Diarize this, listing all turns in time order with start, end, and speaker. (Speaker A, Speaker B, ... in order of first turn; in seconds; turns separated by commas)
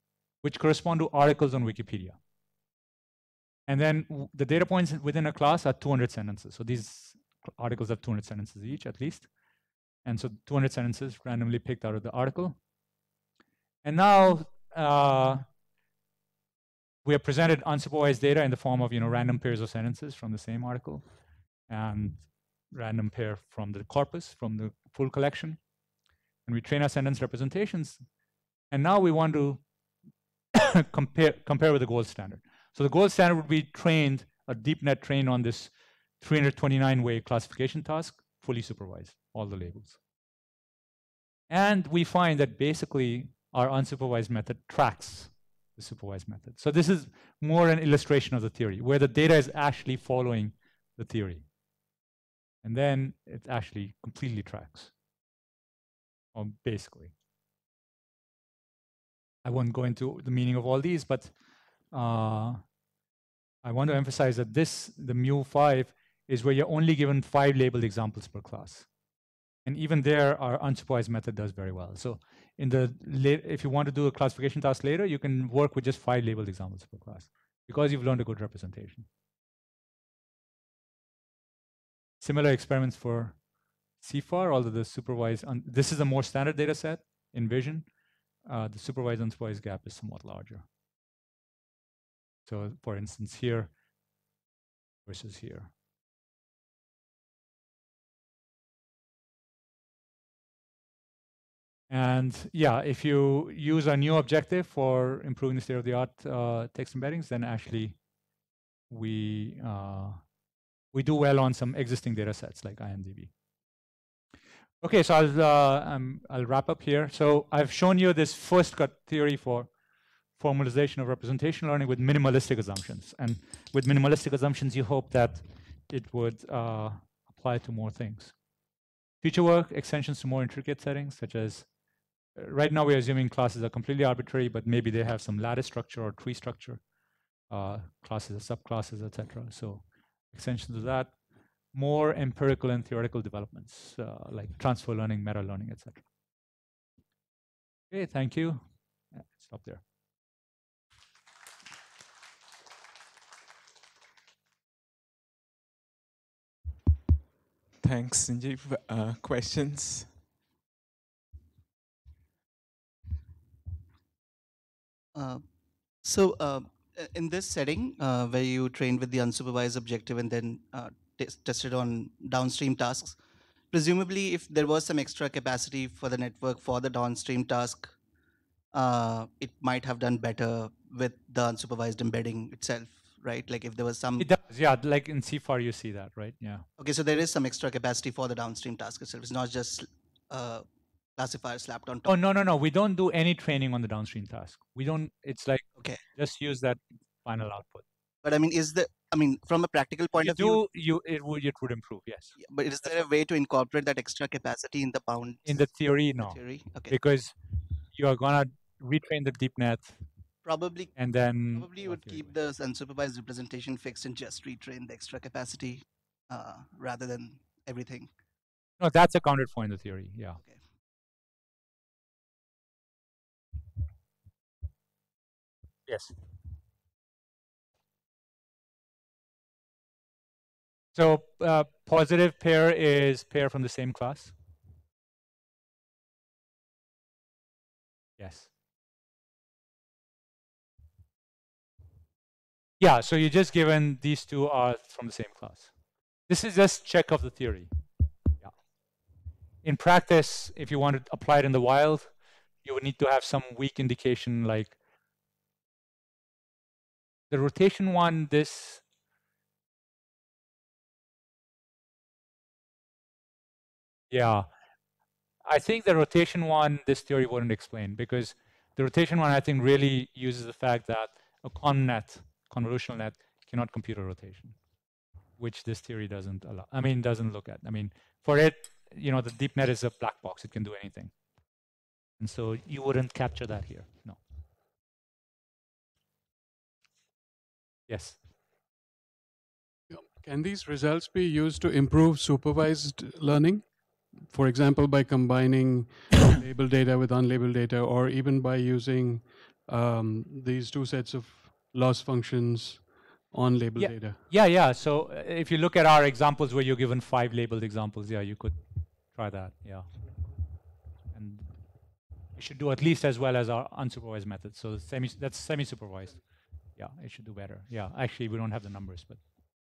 Speaker A: 0.4-2.2, Speaker A: 3.7-9.3, Speaker A: 10.0-12.6, Speaker A: 13.8-15.4, Speaker A: 17.0-21.0, Speaker A: 21.7-25.6, Speaker A: 26.4-28.0, Speaker A: 28.7-29.6, Speaker A: 30.6-40.0, Speaker A: 41.5-51.5, Speaker A: 52.6-54.9, Speaker A: 56.3-57.1, Speaker A: 59.4-61.3, Speaker A: 61.9-62.6, Speaker A: 63.6-68.9, Speaker A: 69.6-79.1, Speaker A: 82.2-83.4, Speaker A: 84.0-87.9, Speaker A: 88.4-90.6, Speaker A: 92.5-93.7, Speaker A: 95.0-95.7, Speaker A: 101.9-108.0, Speaker A: 108.9-110.2, Speaker A: 110.9-113.3, Speaker A: 114.8-119.7, Speaker A: 120.4-128.3, Speaker A: 129.2-131.7, Speaker A: 132.3-136.8, Speaker A: 137.5-141.1, Speaker A: 141.7-146.0, Speaker A: 147.9-149.8, Speaker B: 157.8-160.1, Speaker C: 165.1-165.4, Speaker C: 166.0-173.2, Speaker C: 173.7-177.9, Speaker C: 178.7-184.3, Speaker A: 184.2-186.6, Speaker C: 186.8-190.6, Speaker C: 191.2-192.2, Speaker A: 192.0-197.8, Speaker C: 198.2-200.6, Speaker A: 200.2-202.4, Speaker C: 202.4-206.9, Speaker A: 205.4-207.3, Speaker A: 207.9-210.0, Speaker C: 210.4-218.1, Speaker A: 210.9-212.3, Speaker A: 218.8-220.4, Speaker A: 225.9-226.1, Speaker A: 230.9-234.3, Speaker A: 238.2-238.5, Speaker A: 242.8-245.7, Speaker A: 246.3-247.7, Speaker A: 249.6-252.1, Speaker A: 252.6-254.8, Speaker A: 257.3-258.8, Speaker A: 264.1-264.5, Speaker A: 265.4-274.6, Speaker A: 275.4-281.1, Speaker A: 282.2-284.2, Speaker A: 287.9-288.2, Speaker D: 289.9-304.2, Speaker A: 303.8-310.3, Speaker A: 311.1-311.8, Speaker A: 312.3-319.2